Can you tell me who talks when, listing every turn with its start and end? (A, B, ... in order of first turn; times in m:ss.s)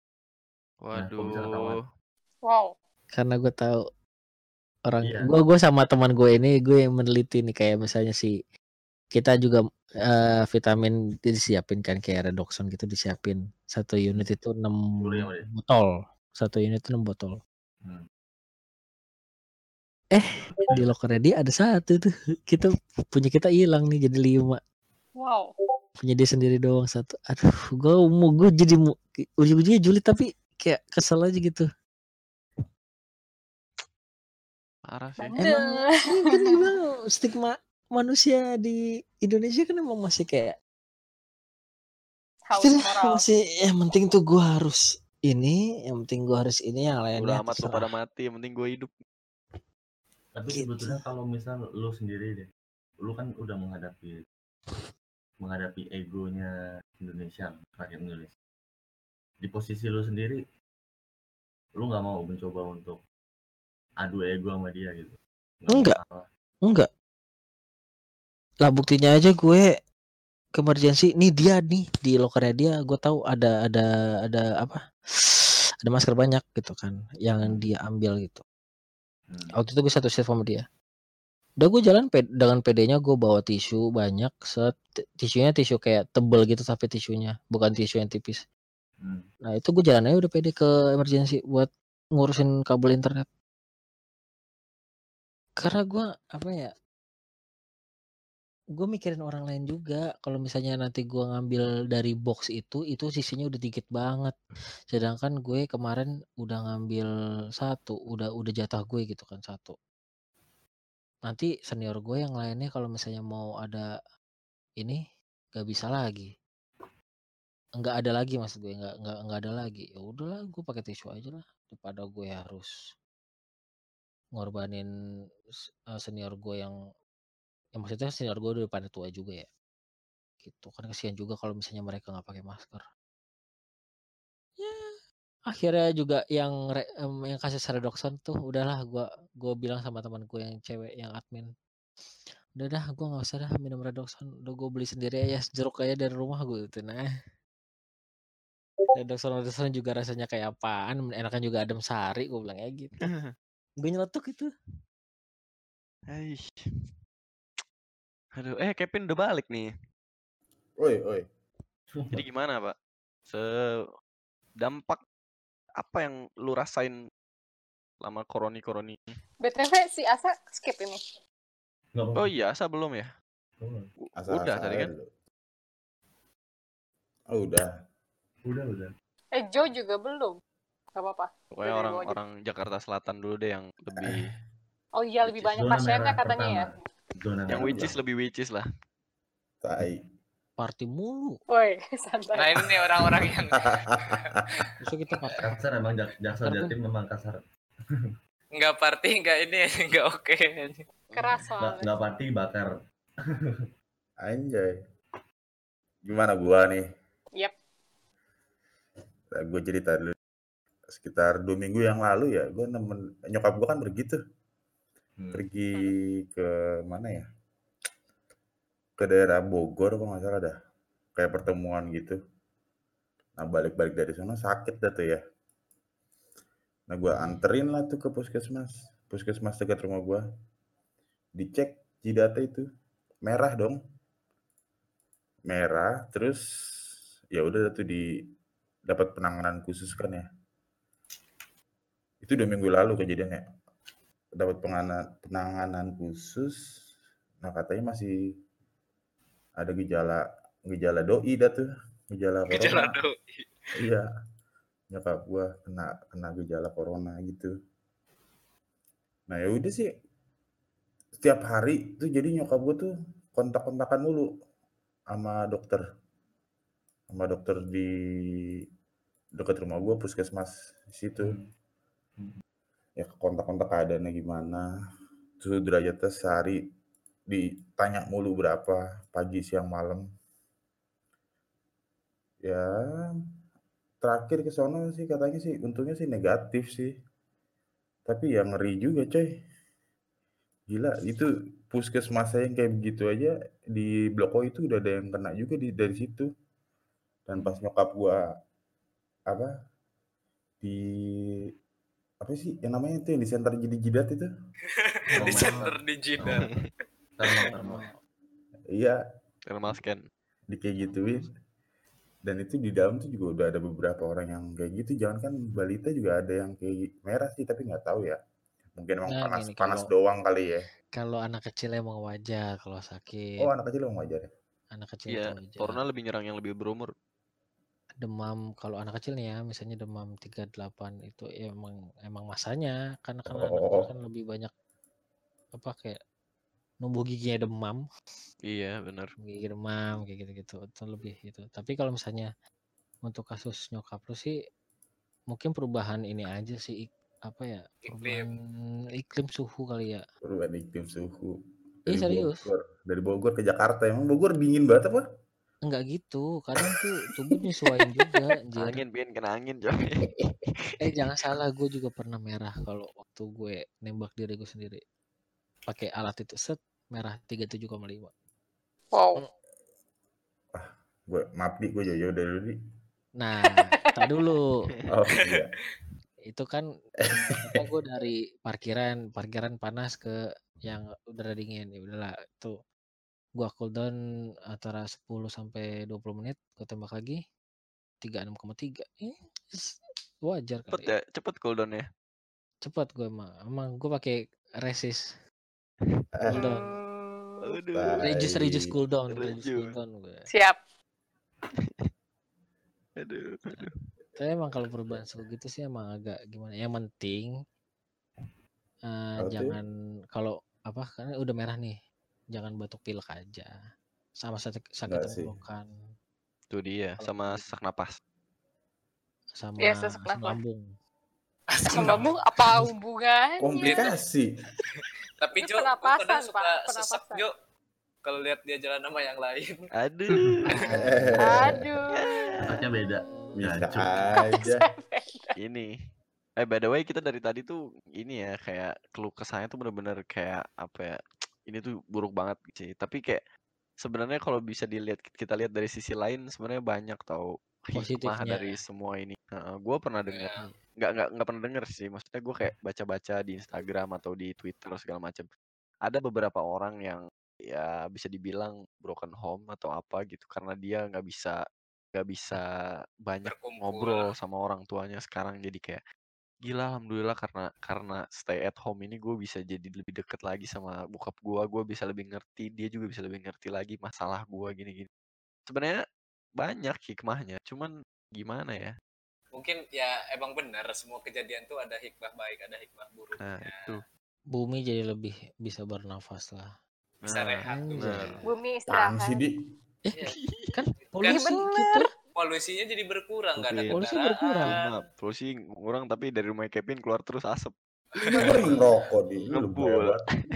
0:00.8-0:01.7 A
0:00.9-0:01.8 B
0:02.4-0:02.7 C
0:03.1-0:03.8 D
0:04.9-0:08.3 D
0:05.0-0:05.3 B
0:09.1-0:17.4 D
0:15.0-0:15.5 B
0:20.1-0:24.6 D
0:25.2-0:25.5 C
0:26.0-0:31.6 D
0:34.9-0:35.4 A
0:35.2-0:36.7 C
0:35.4-0:40.6 D
0:42.5-0:43.2 C
0:42.6-0:47.9 D
0:47.1-0:48.9 A
0:50.3-0:52.5 B
0:50.5-0:51.0 D
0:53.0-0:54.2 B
0:55.4-0:58.3 B
0:59.4-1:00.4 B
1:01.8-1:03.0 B
1:04.0-1:06.2 B
1:05.7-1:06.0 D
1:08.6-1:09.7 D
1:10.6-1:14.8 D
1:15.8-1:18.4 D
1:19.3-1:19.5 B
1:19.6-1:20.6 D
1:21.6-1:28.4 D
1:29.0-1:29.3 B
1:29.4-1:33.3 D
1:35.6-1:36.7 D
1:38.8-1:44.4 D
1:44.9-1:49.8 D
1:51.3-1:53.8 D
1:55.5-1:56.3 D
1:57.8-2:02.7 D
2:04.4-2:04.9 D
2:05.9-2:06.7 D
2:07.8-2:09.5 D
2:10.4-2:12.8 D
2:15.5-2:21.5 D
2:22.6-2:27.0 D
2:28.9-2:32.9 D
2:33.0-2:33.3 A
2:33.8-2:34.5 D
2:36.1-2:36.5 A
2:38.4-2:39.7 A
2:40.8-2:41.2 E
2:41.9-2:42.2 B
2:42.1-2:42.7 A
2:43.3-2:43.8 A
2:44.6-2:45.0 A
2:45.8-2:46.9 A
2:48.0-2:49.0 A
2:49.4-2:51.0 C
2:51.9-2:52.3 B
2:52.1-2:53.1 A
2:53.6-2:53.9 B
2:54.0-2:54.9 A
2:54.2-2:55.0 E
2:57.3-2:57.7 E
2:58.4-2:58.9 B
2:59.3-3:00.4 C
3:00.9-3:02.2 C
3:01.5-3:04.2 A
3:05.0-3:06.7 C
3:05.3-3:07.9 B
3:07.5-3:07.9 E
3:07.5-3:08.7 A
3:09.6-3:10.0 E
3:10.6-3:11.4 D
3:11.5-3:12.6 C
3:12.3-3:14.7 F
3:13.5-3:14.6 E
3:14.8-3:15.4 D
3:15.4-3:17.4 B
3:16.4-3:16.7 D
3:18.5-3:20.8 F
3:21.1-3:21.9 C
3:21.6-3:22.7 B
3:23.3-3:23.6 B
3:24.2-3:24.7 E
3:26.0-3:26.8 E
3:29.3-3:30.1 E
3:30.9-3:34.2 E
3:35.2-3:35.4 B
3:35.3-3:37.2 E
3:39.0-3:40.5 E
3:41.2-3:42.2 E
3:43.4-3:45.2 E
3:46.9-3:50.2 E
3:51.4-3:52.6 E
3:53.2-3:53.8 E
3:55.4-3:56.4 E
3:57.3-3:58.0 E
3:58.9-4:00.2 E
4:02.2-4:03.4 E
4:04.4-4:06.6 E
4:07.4-4:08.1 E
4:09.6-4:13.0 E
4:12.5-4:13.5 F
4:13.8-4:14.1 E
4:14.9-4:17.5 E
4:19.3-4:19.9 E
4:21.2-4:24.2 E
4:25.1-4:25.8 E
4:27.1-4:27.9 E
4:29.4-4:31.4 E
4:31.2-4:31.5 B
4:33.0-4:34.6 E
4:35.4-4:36.6 E
4:37.3-4:40.0 E
4:44.0-4:46.9 E
4:48.1-4:49.3 E
4:50.7-4:56.3 E
4:57.3-4:58.2 E
5:02.2-5:04.3 E
5:04.7-5:06.5 F
5:05.2-5:06.5 B
5:05.2-5:05.5 E
5:07.2-5:07.8 B
5:07.5-5:07.9 D
5:09.5-5:10.0 A
5:10.5-5:11.3 E
5:12.2-5:18.2 E
5:18.8-5:20.7 E
5:19.1-5:19.9 D
5:21.0-5:23.2 D
5:23.4-5:24.3 E
5:24.7-5:25.8 D
5:25.1-5:26.9 A
5:28.0-5:34.5 D
5:33.3-5:33.9 E
5:35.5-5:36.0 D
5:36.8-5:37.8 D
5:38.5-5:39.1 A
5:39.2-5:42.3 D
5:43.0-5:44.3 D
5:45.3-5:48.4 D
5:47.8-5:48.3 F
5:49.0-5:50.0 D
5:50.2-5:51.3 E
5:51.9-5:55.0 E
5:51.9-5:52.4 D
5:55.7-5:58.8 D
5:58.6-6:00.1 A
6:00.2-6:04.8 D
6:05.7-6:08.1 D
6:08.9-6:09.2 C
6:10.5-6:12.5 E
6:13.2-6:14.4 D
6:13.5-6:14.3 C
6:14.9-6:15.5 E
6:15.2-6:15.4 F
6:16.3-6:16.6 D
6:17.0-6:17.6 E
6:17.5-6:20.1 D
6:20.6-6:22.5 D
6:23.4-6:24.0 D
6:24.5-6:27.2 D
6:28.0-6:30.9 D
6:30.7-6:31.8 A
6:32.6-6:35.0 D
6:36.2-6:36.5 E
6:36.3-6:37.6 C
6:36.3-6:36.6 D
6:37.4-6:38.0 A
6:37.8-6:38.7 E
6:38.0-6:40.2 D
6:39.1-6:39.7 A
6:40.3-6:40.6 C
6:43.0-6:43.7 A
6:44.2-6:47.3 D
6:48.9-6:51.7 D
6:49.2-6:49.6 E
6:52.3-6:53.5 D
6:54.2-6:55.6 D
6:54.9-6:55.4 E
6:56.5-6:58.0 A
6:57.0-6:57.5 D
6:59.4-7:00.6 D
6:59.6-7:00.4 C
7:01.6-7:02.1 F
7:01.7-7:03.9 C
7:03.4-7:04.3 E
7:03.6-7:03.9 F
7:04.7-7:07.3 F
7:05.4-7:07.3 C
7:08.0-7:09.7 F
7:09.7-7:10.6 A
7:10.1-7:10.5 B
7:10.5-7:11.1 D
7:10.7-7:11.6 E
7:11.2-7:13.4 C
7:12.0-7:12.2 A
7:12.4-7:14.1 B
7:13.3-7:14.7 E
7:14.2-7:15.3 C
7:15.4-7:15.7 A
7:16.4-7:23.2 A
7:23.8-7:35.2 A
7:27.8-7:28.4 D
7:30.1-7:30.4 F
7:35.8-7:41.4 A
7:41.9-7:42.4 A
7:43.0-7:45.8 A
7:43.2-7:44.0 F
7:46.4-7:54.9 A
7:55.5-7:55.8 A
7:56.4-7:58.7 A
7:59.3-8:03.7 F
8:03.2-8:03.8 A
8:04.3-8:06.5 D
8:07.0-8:08.2 A
8:07.1-8:08.1 F
8:07.5-8:08.2 D
8:08.2-8:09.2 C
8:08.7-8:09.4 E
8:09.8-8:11.9 D
8:10.2-8:10.5 A
8:10.8-8:11.4 F
8:11.1-8:11.9 C
8:12.1-8:14.8 F
8:13.4-8:13.8 A
8:13.7-8:14.5 D
8:14.4-8:17.5 A
8:17.9-8:18.7 F
8:18.0-8:20.0 E
8:18.1-8:18.6 A
8:19.2-8:20.0 A